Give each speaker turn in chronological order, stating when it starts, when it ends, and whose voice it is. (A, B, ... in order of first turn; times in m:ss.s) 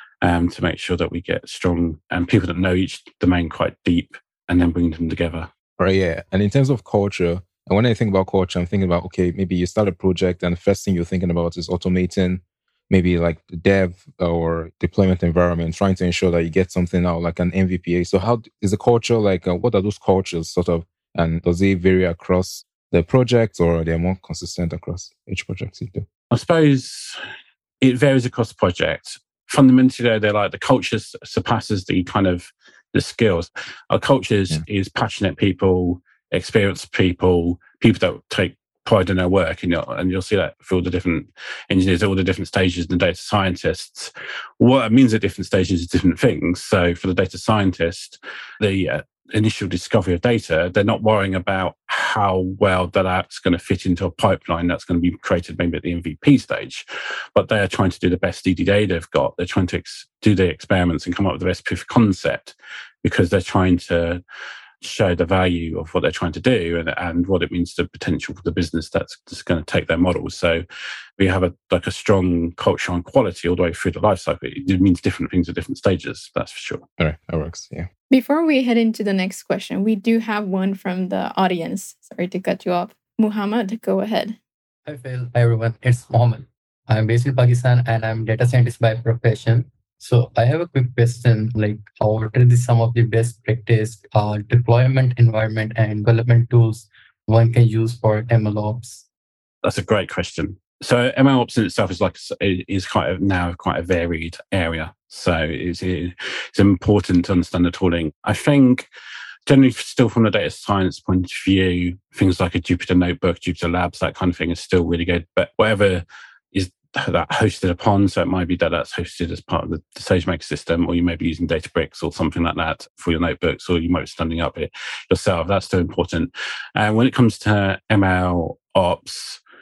0:00.2-0:05.5 A
0:05.8-0:26.1 B
0:26.3-0:27.2 A
0:27.8-0:56.8 A
0:57.4-1:04.2 A
1:04.8-1:10.6 A
1:11.2-1:16.8 A
1:17.0-1:17.9 B
1:18.1-1:24.4 C
1:24.9-1:39.1 D
1:39.6-1:48.9 A
1:49.5-2:09.4 A